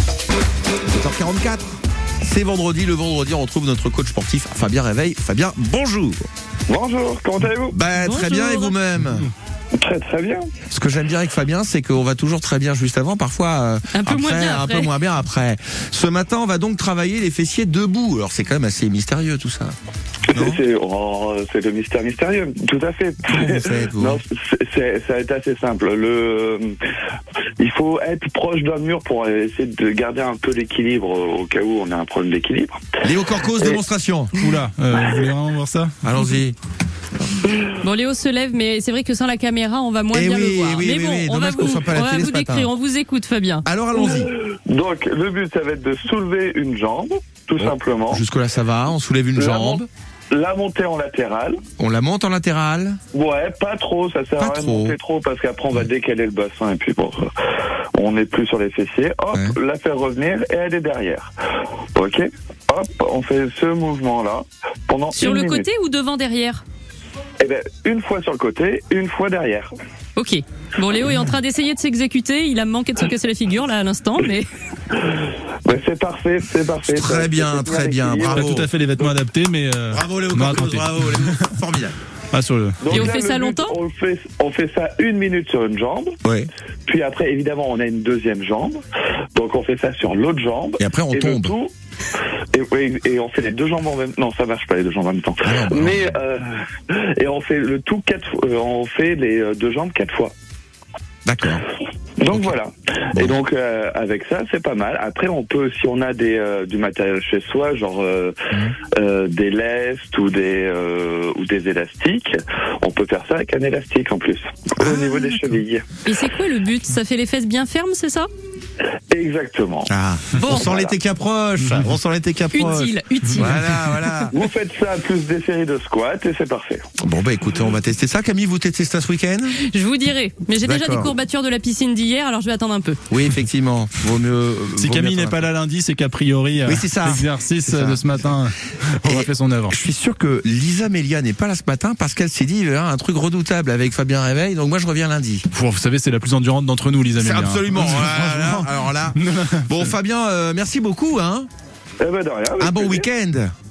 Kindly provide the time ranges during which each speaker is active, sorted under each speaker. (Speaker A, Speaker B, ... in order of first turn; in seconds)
Speaker A: 0.9-1.7, 2.2-6.3, 7.7-9.3, 10.7-19.8, 20.3-20.6, 23.2-24.2, 33.0-34.4, 36.0-36.6, 40.1-42.7, 43.6-44.3, 47.6-49.9, 51.8-53.0, 54.4-55.0, 76.9-78.7, 79.9-82.0, 86.2-86.5, 90.8-91.5, 95.4-96.2, 101.3-101.6, 119.9-124.3, 127.0-129.6, 130.6-131.1, 133.1-135.5, 136.6-138.3, 139.0-145.4, 147.2-151.5, 152.6-153.5
Speaker B: 6.7-7.8, 9.8-10.5, 20.3-26.8, 27.6-33.8, 44.0-48.2, 49.4-51.6, 53.1-57.3, 58.0-61.3, 62.0-65.7, 67.4-69.7, 75.1-78.6, 82.8-86.2, 86.9-88.8, 89.4-91.7, 92.5-100.3, 102.2-116.0, 119.1-119.9, 120.4-121.0, 124.3-126.8, 152.0-153.1
Speaker C: 8.0-8.7, 13.9-14.9, 37.6-43.6, 65.1-66.6, 70.2-74.5, 82.9-83.8, 114.8-115.1, 116.0-118.3, 120.4-120.7, 122.5-123.8, 129.6-133.0
Speaker D: 34.3-35.9, 78.3-81.3, 82.3-83.1, 134.8-139.8, 145.5-149.9